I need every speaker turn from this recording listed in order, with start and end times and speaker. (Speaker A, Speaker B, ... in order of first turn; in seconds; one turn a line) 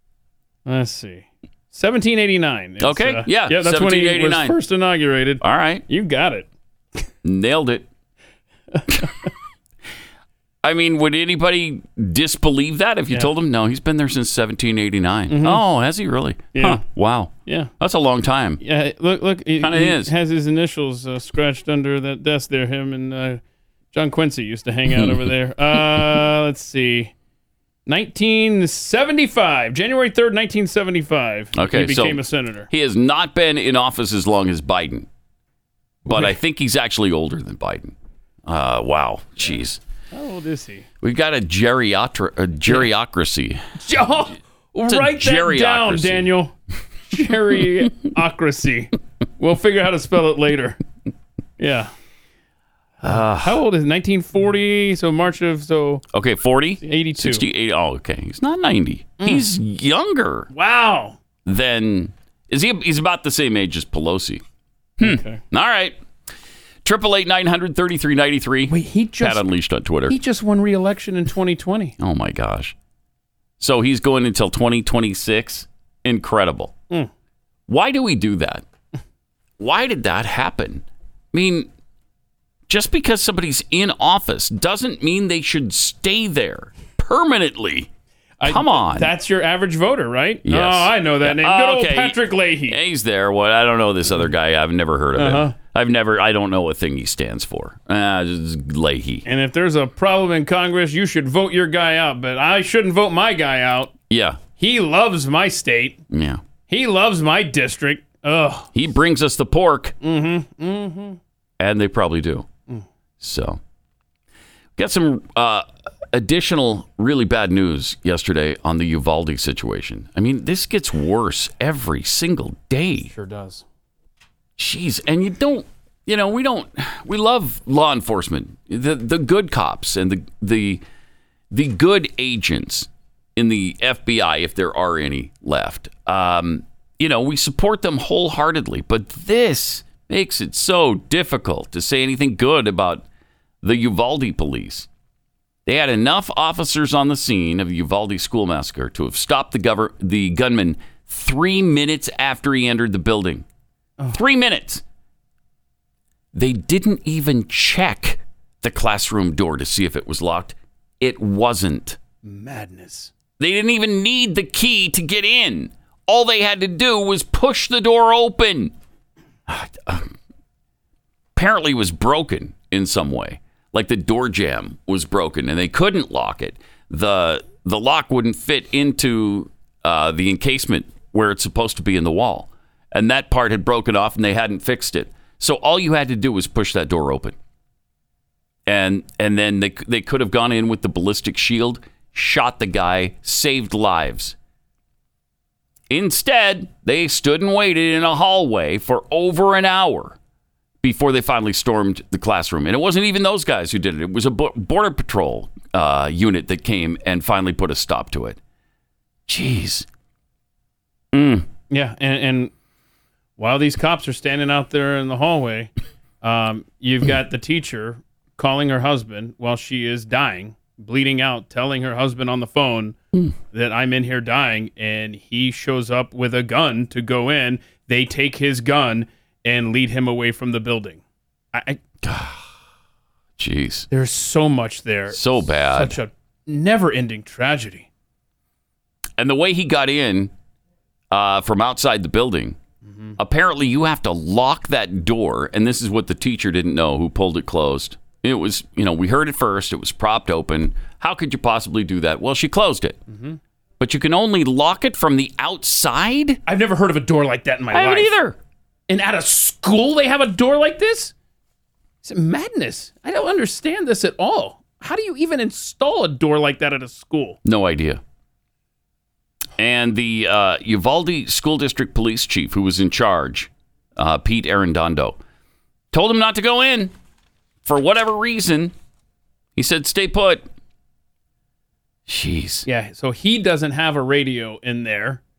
Speaker A: 0.7-6.5
Speaker B: 2.8-4.6
Speaker B: 5.4-5.8
Speaker B: 7.2-7.9
Speaker A: 8.7-9.3
Speaker B: 10.6-18.6
Speaker A: 15.3-15.6
Speaker A: 16.5-16.8
Speaker A: 17.4-17.7
Speaker A: 18.6-23.4
Speaker B: 19.6-20.1
Speaker A: 23.9-27.1
Speaker B: 24.9-26.2
Speaker A: 27.9-32.7
Speaker B: 31.6-35.1
Speaker A: 36.1-36.4
Speaker B: 36.1-37.9
Speaker B: 38.5-39.8
Speaker A: 40.1-40.9
Speaker B: 41.0-43.6
Speaker A: 43.8-46.5
Speaker B: 44.9-46.3
Speaker A: 47.1-50.8
Speaker A: 51.6-51.9
Speaker B: 53.0-53.6
Speaker A: 53.1-56.0
Speaker B: 56.1-60.5
Speaker A: 56.8-57.5
Speaker A: 59.2-59.5
Speaker A: 60.5-61.2
Speaker B: 61.5-64.4
Speaker B: 65.0-66.0
Speaker A: 65.0-65.4
Speaker B: 66.8-70.2
Speaker A: 68.7-69.5
Speaker A: 70.1-72.0
Speaker B: 72.0-72.8
Speaker B: 73.6-76.7
Speaker B: 77.7-78.6
Speaker B: 79.6-81.7
Speaker B: 82.7-87.9
Speaker A: 88.4-92.8
Speaker B: 88.5-89.1
Speaker B: 90.5-99.2
Speaker A: 95.2-95.5
Speaker A: 99.2-103.9
Speaker B: 104.1-104.4
Speaker A: 104.6-106.0
Speaker B: 106.1-106.4
Speaker A: 106.7-108.7
Speaker B: 108.7-110.0
Speaker A: 110.0-111.2
Speaker B: 111.6-112.5
Speaker B: 113.2-113.6
Speaker B: 114.8-123.1
Speaker A: 123.1-123.7
Speaker B: 124.6-130.8
Speaker B: 131.5-143.1
Speaker B: 143.6-144.9
Speaker B: 145.7-153.4
Speaker B: 154.1-154.8
Speaker B: 156.3-162.0
Speaker A: 162.2-163.1
Speaker B: 163.4-168.7
Speaker B: 169.5-170.1
Speaker B: 171.4-187.3
Speaker B: 188.7-194.3
Speaker B: 195.9-200.2
Speaker B: 200.8-208.4
Speaker B: 209.3-209.9
Speaker B: 211.1-211.5
Speaker A: 211.7-212.5
Speaker A: 213.4-223.0
Speaker A: 223.5-231.0
Speaker A: 231.5-231.8
Speaker B: 232.0-232.4
Speaker B: 233.4-233.9
Speaker A: 233.9-237.9
Speaker B: 235.1-236.0
Speaker B: 239.2-240.3
Speaker B: 241.1-242.6
Speaker A: 242.8-243.2
Speaker B: 243.2-253.0
Speaker A: 253.1-253.4
Speaker B: 253.8-256.4
Speaker A: 256.5-258.1
Speaker B: 257.7-258.4
Speaker A: 258.9-261.1
Speaker A: 262.0-267.4
Speaker B: 267.4-268.0
Speaker B: 269.6-275.2
Speaker B: 275.9-276.9
Speaker B: 277.6-278.7
Speaker B: 279.6-280.5
Speaker B: 282.1-282.7
Speaker A: 282.7-285.2